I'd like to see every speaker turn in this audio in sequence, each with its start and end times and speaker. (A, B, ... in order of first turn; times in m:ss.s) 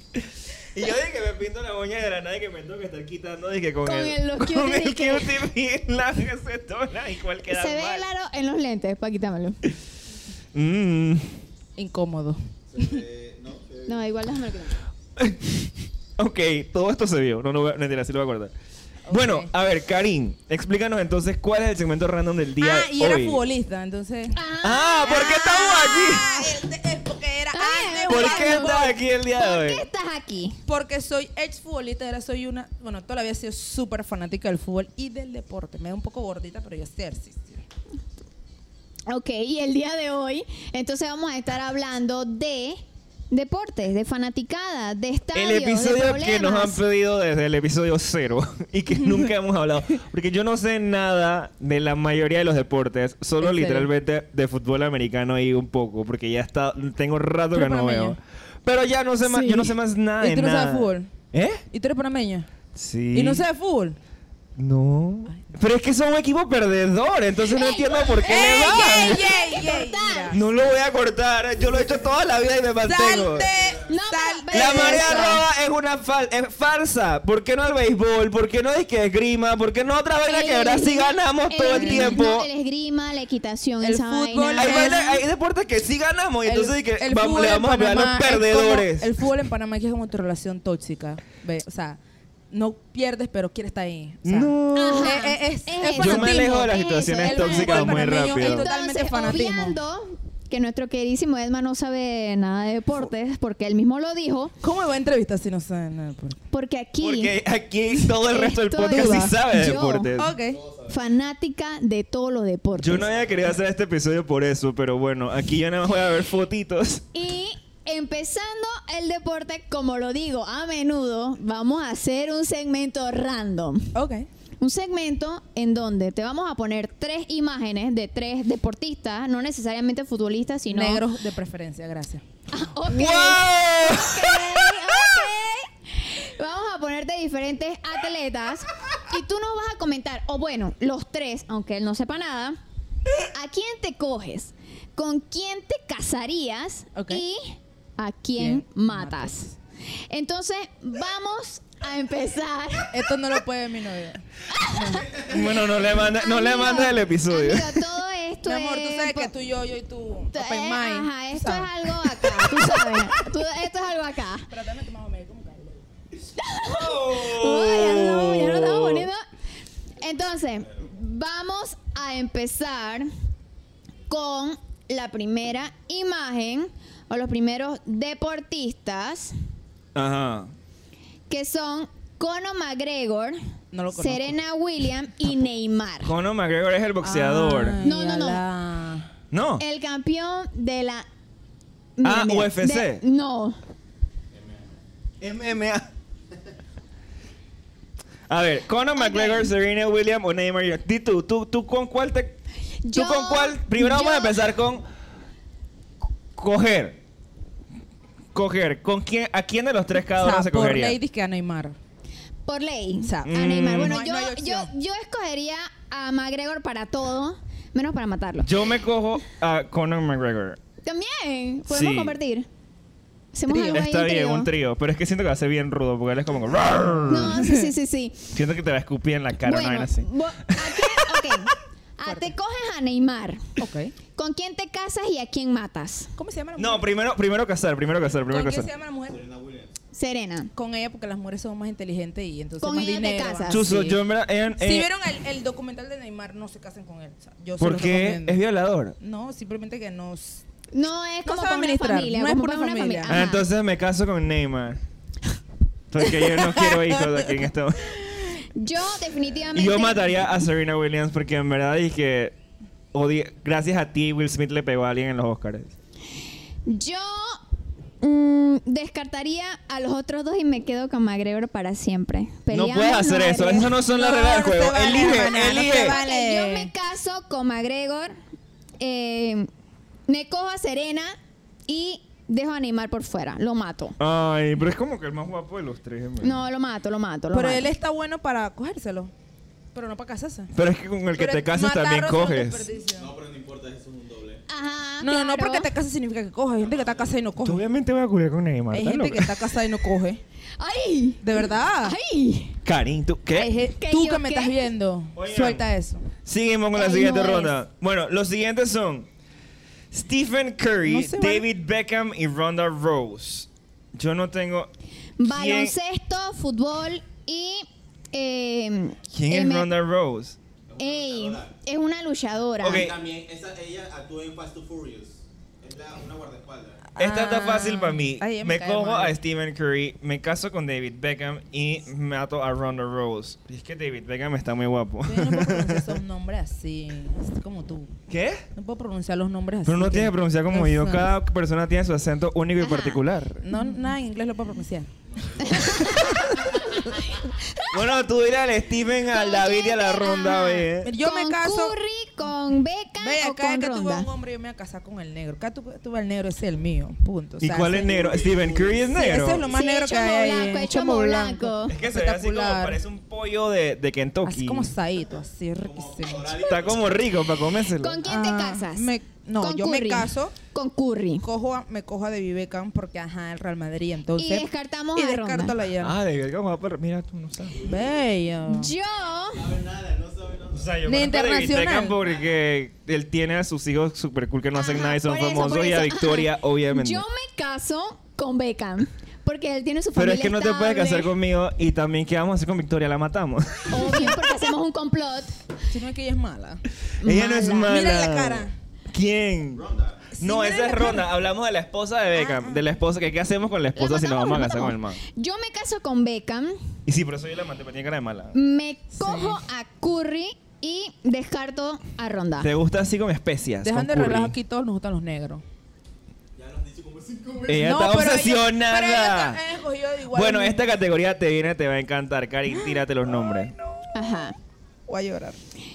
0:00.7-0:08.0 A
0:03.8-0:05.3 B
0:07.5-0:09.6 B
0:10.5-0:11.3 A
0:11.8-0:13.0 C
0:12.7-0:14.0 D
0:13.9-0:14.8 B
0:15.2-0:15.6 A
0:16.2-0:18.5 A
0:19.1-0:19.5 C
0:19.1-0:23.4 A
0:22.6-0:24.4 C
0:24.3-0:26.5 B
0:24.6-0:26.2 A
0:25.0-0:29.0 C
0:27.5-0:28.8 B
0:28.1-0:29.8 A
0:29.3-0:30.6 B
0:30.7-0:37.6 C
0:39.1-0:46.8 B
0:45.3-1:01.6 A
0:53.4-0:53.9 C
0:57.5-0:58.2 C
0:59.3-0:59.6 B
1:00.2-1:01.1 C
1:01.7-1:02.5 C
1:02.7-1:03.4 A
1:03.1-1:04.0 C
1:04.6-1:09.3 A
1:07.5-1:10.4 B
1:08.2-1:10.4 C
1:10.3-1:13.5 A
1:12.8-1:15.4 C
1:13.9-1:15.4 B
1:14.5-1:22.5 A
1:20.2-1:25.2 B
1:21.7-1:22.2 C
1:23.8-1:25.1 C
1:24.6-1:29.1 A
1:26.4-1:32.0 C
1:32.5-1:39.8 C
1:34.2-1:35.2 A
1:34.7-1:44.5 B
1:36.0-1:38.7 A
1:44.6-1:46.4 C
1:46.5-1:47.3 B
1:47.0-1:50.3 A
1:48.3-1:50.1 B
1:48.8-1:49.3 C
1:50.2-1:50.6 C
1:50.4-1:51.0 D
1:50.9-1:53.1 B
1:52.8-1:57.0 A
1:53.0-1:53.4 D
1:57.1-2:03.9 B
2:03.9-2:04.3 C
2:04.6-2:11.0 B
2:10.7-2:12.2 C
2:12.5-2:22.6 B
2:12.8-2:15.2 A
2:23.3-2:29.5 B
2:27.0-2:27.2 C
2:28.4-2:29.5 C
2:30.1-2:32.9 B
2:32.9-2:35.5 C
2:34.5-2:35.2 B
2:35.2-2:37.9 A
2:35.9-2:39.3 B
2:38.4-2:42.0 C
2:40.3-2:44.5 B
2:42.6-2:43.1 A
2:44.5-2:45.8 C
2:46.4-2:49.2 B
2:46.6-2:49.1 A
2:50.0-2:53.1 B
2:54.1-2:59.3 B
2:59.9-3:00.5 A
3:01.3-3:03.4 B
3:03.7-3:04.4 C
3:03.9-3:06.1 B
3:06.0-3:07.8 A
3:07.0-3:09.1 C
3:07.8-3:08.4 B
3:09.3-3:09.6 A
3:09.6-3:11.0 B
3:12.0-3:13.6 B
3:12.0-3:13.0 A
3:14.3-3:14.6 D
3:15.2-3:15.9 A
3:18.3-3:22.4 A
3:19.0-3:19.5 B
3:22.8-3:24.4 B
3:22.9-3:24.8 A
3:26.4-3:27.0 A
3:28.3-3:31.0 A
3:30.2-3:31.8 C
3:32.5-3:38.5 B
3:33.0-3:34.7 C
3:33.2-3:34.0 A
3:38.4-3:40.6 A
3:40.8-3:42.4 B
3:41.7-3:42.2 A
3:43.3-3:44.5 B
3:43.5-3:43.8 C
3:43.7-3:47.5 A
3:47.1-3:48.3 B
3:47.1-3:47.7 C
3:48.3-3:51.4 A
3:49.4-3:53.4 B
3:52.0-3:52.3 C
3:53.6-3:53.9 C
3:54.1-3:56.1 B
3:56.2-3:56.9 C
3:56.6-3:58.7 A
3:58.3-3:59.2 C
3:59.1-3:59.7 D
3:59.9-4:00.5 B
4:00.5-4:04.0 C
4:02.6-4:03.7 B
4:03.5-4:04.9 A
4:04.5-4:08.4 C
4:07.6-4:08.9 A
4:09.0-4:10.4 C
4:10.7-4:13.4 B
4:11.2-4:13.2 C
4:13.1-4:14.8 A
4:15.9-4:18.0 A
4:16.2-4:17.3 C
4:18.5-4:20.3 B
4:19.5-4:22.3 A
4:22.9-4:25.7 A
4:26.6-4:27.4 B
4:28.0-4:33.7 B
4:32.5-4:36.0 A
4:33.9-4:36.7 C
4:35.6-4:38.1 B
4:38.8-4:39.5 B
4:40.1-4:41.2 B
4:41.7-4:44.0 B
4:44.0-4:46.4 A
4:46.2-4:47.7 B
4:47.3-4:49.1 C
4:49.7-4:50.5 C
4:50.5-4:52.7 A
4:51.1-4:53.1 C
4:52.9-4:54.4 D
4:54.5-4:55.7 B
4:55.0-4:57.6 C
4:56.6-4:57.2 D
4:57.4-4:59.6 A
4:58.7-5:00.2 C
5:00.6-5:02.6 B
5:01.2-5:02.0 C
5:02.6-5:03.5 A
5:03.3-5:06.1 C
5:03.7-5:04.6 B
5:05.2-5:05.6 A
5:06.2-5:09.1 A
5:06.7-5:07.5 B
5:09.9-5:14.7 A
5:10.8-5:11.4 C
5:15.2-5:19.7 B
5:15.3-5:15.7 A
5:19.1-5:20.4 A
5:20.7-5:21.5 D
5:20.8-5:22.9 B
5:22.6-5:23.0 A
5:22.7-5:26.9 D
5:26.9-5:29.2 C
5:27.0-5:36.0 A
5:35.0-5:37.9 C
5:38.1-5:38.4 A
5:38.5-5:41.1 C
5:39.6-5:43.4 A
5:42.6-5:43.0 B
5:43.4-5:44.9 C
5:45.2-5:46.0 D
5:45.4-5:46.9 C
5:45.4-5:47.8 B
5:47.7-5:50.9 A
5:49.1-5:54.1 B
5:50.8-5:51.7 C
5:53.0-5:58.1 C
5:57.4-5:59.4 A
5:57.8-5:59.6 D
5:58.9-6:02.8 C
5:59.5-6:01.7 B
6:01.7-6:04.7 A
6:04.2-6:06.4 C
6:05.6-6:07.0 D
6:06.3-6:08.0 A
6:07.8-6:11.2 B
6:08.0-6:10.4 C
6:11.2-6:16.0 C
6:14.2-6:15.5 B
6:15.8-6:17.6 A
6:17.5-6:18.0 D
6:17.6-6:18.7 C
6:18.5-6:19.5 B
6:19.3-6:20.8 D
6:20.5-6:27.0 A
6:20.8-6:22.0 C
6:22.0-6:22.3 D
6:24.5-6:31.1 B
6:29.9-6:34.1 A
6:33.7-6:35.4 B
6:35.7-6:36.6 C
6:37.0-6:37.7 B
6:37.0-6:39.6 A
6:37.6-6:38.5 C
6:39.5-6:40.1 D
6:40.1-6:41.1 C
6:40.2-6:45.0 A
6:42.2-6:42.6 C
6:43.8-6:46.6 B
6:46.9-6:48.3 A
6:48.3-6:52.5 B
6:49.0-6:49.4 C
6:52.4-6:54.3 A
6:53.6-6:55.4 C
6:56.3-6:57.7 D
6:57.5-6:59.4 A
6:57.6-7:00.6 C
7:00.1-7:03.5 A
7:02.5-7:04.3 C
7:03.9-7:04.3 B
7:04.9-7:05.4 C